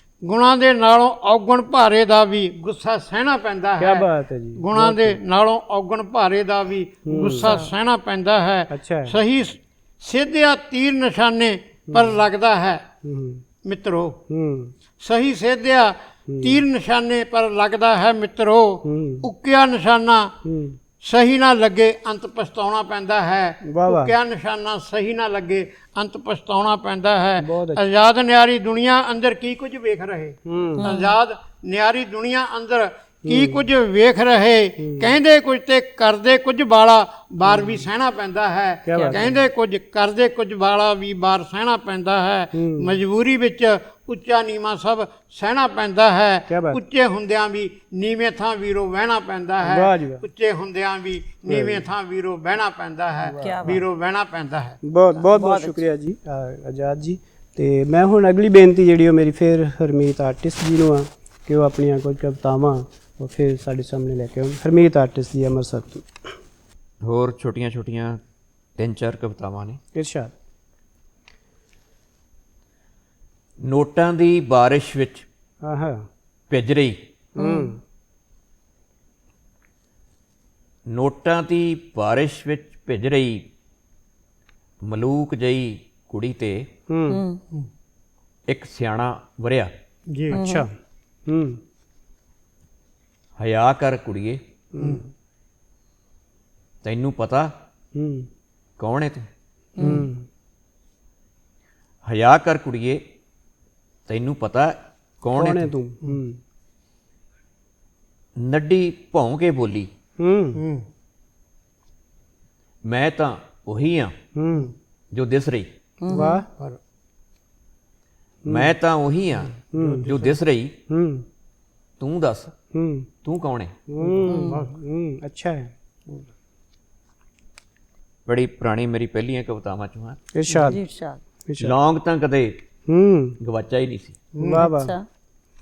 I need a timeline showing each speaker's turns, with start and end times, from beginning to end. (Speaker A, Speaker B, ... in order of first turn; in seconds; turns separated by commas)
Speaker A: 0.2-12.8, Speaker B: 3.8-5.2, Speaker B: 7.0-7.6, Speaker C: 7.2-7.7, Speaker B: 8.7-9.2, Speaker B: 11.9-12.2, Speaker B: 13.0-13.4, Speaker A: 13.6-14.2, Speaker B: 14.3-14.7, Speaker A: 15.0-20.3, Speaker B: 16.3-16.6, Speaker B: 18.8-19.3, Speaker B: 20.4-20.8, Speaker A: 21.0-54.8, Speaker B: 23.6-24.1, Speaker B: 27.4-27.8, Speaker B: 30.4-30.9, Speaker C: 30.8-31.1, Speaker B: 33.2-33.6, Speaker B: 34.8-35.2, Speaker B: 37.5-37.9, Speaker B: 38.9-39.4, Speaker C: 38.9-39.2, Speaker B: 42.5-43.0, Speaker B: 46.5-46.8, Speaker B: 49.6-50.2, Speaker B: 51.5-51.9, Speaker B: 53.2-53.7, Speaker C: 53.4-53.8, Speaker B: 54.8-66.3, Speaker C: 55.2-55.8, Speaker D: 67.0-68.2, Speaker D: 68.8-69.8, Speaker B: 70.0-70.3, Speaker D: 73.6-75.2, Speaker B: 75.6-76.0, Speaker D: 76.5-77.0, Speaker B: 77.3-77.8, Speaker C: 77.4-77.8, Speaker D: 80.9-83.5, Speaker D: 84.8-86.7, Speaker B: 86.9-87.2, Speaker C: 87.1-87.4, Speaker D: 88.5-89.7, Speaker A: 90.1-90.4, Speaker B: 90.3-90.7, Speaker C: 90.3-90.7, Speaker B: 91.2-91.6, Speaker D: 93.4-94.4, Speaker B: 94.7-95.1, Speaker D: 96.8-97.5, Speaker B: 98.0-98.3, Speaker D: 98.8-99.3, Speaker C: 99.8-100.1, Speaker B: 99.8-100.2, Speaker D: 102.0-103.0, Speaker D: 104.1-105.7, Speaker B: 105.3-106.4, Speaker D: 108.4-109.9, Speaker B: 110.2-110.6, Speaker A: 110.5-110.8, Speaker D: 112.8-114.1, Speaker B: 114.3-114.7, Speaker D: 115.1-115.7, Speaker C: 116.0-116.4, Speaker B: 116.1-116.5, Speaker B: 118.4-118.7, Speaker D: 118.5-120.8, Speaker A: 119.7-120.3, Speaker B: 119.7-120.1, Speaker B: 120.9-121.2, Speaker D: 122.0-122.5, Speaker B: 122.7-123.1, Speaker D: 123.2-123.8, Speaker B: 123.9-125.7, Speaker A: 124.0-124.7, Speaker C: 124.2-124.6, Speaker D: 128.2-130.2, Speaker B: 130.3-130.8, Speaker C: 130.5-131.2, Speaker B: 131.5-131.8, Speaker D: 131.6-132.6, Speaker B: 132.9-133.4, Speaker D: 133.4-134.2, Speaker A: 134.3-134.6, Speaker B: 134.4-134.9, Speaker C: 134.5-135.0